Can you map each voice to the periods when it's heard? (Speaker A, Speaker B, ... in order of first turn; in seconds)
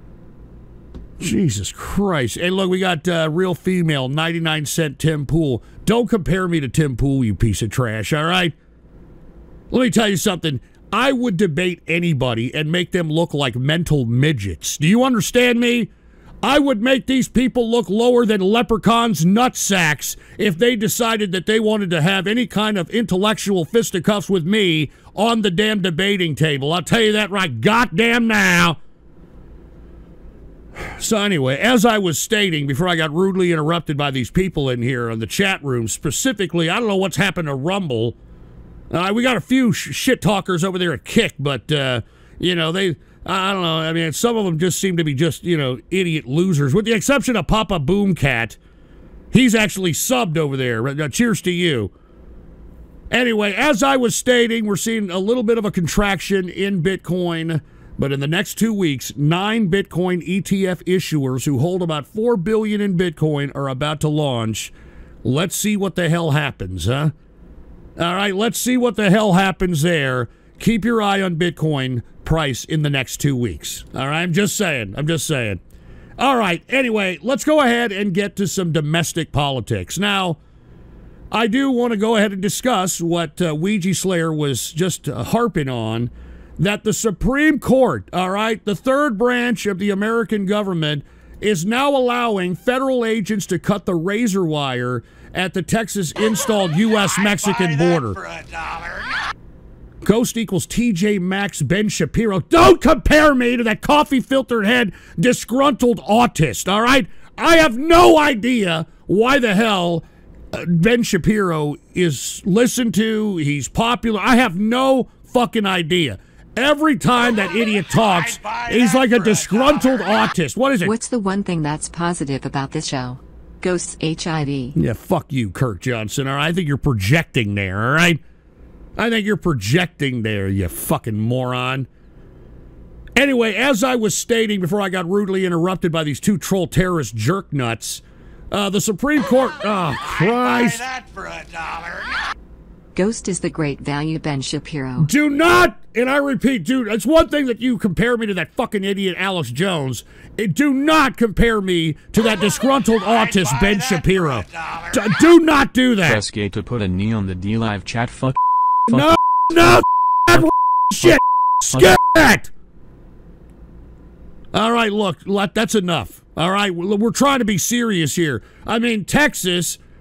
Speaker A: 1.2-8.5, 9.7-15.9, 16.4-28.8, 31.0-38.1, 38.9-48.6, 49.3-51.9, 53.1-64.7, 65.2-67.1, 68.0-75.6, 76.2-80.4, 81.3-98.2, 100.0-120.9, 124.7-128.2, 129.0-131.9, 133.2-140.8, 145.0-156.2, 158.9-162.5, 164.5-169.8
Speaker B: 96.9-99.2, 117.9-120.2, 140.0-142.2, 153.0-155.1
Speaker C: 120.8-124.7, 142.9-145.1
Speaker D: 156.0-159.8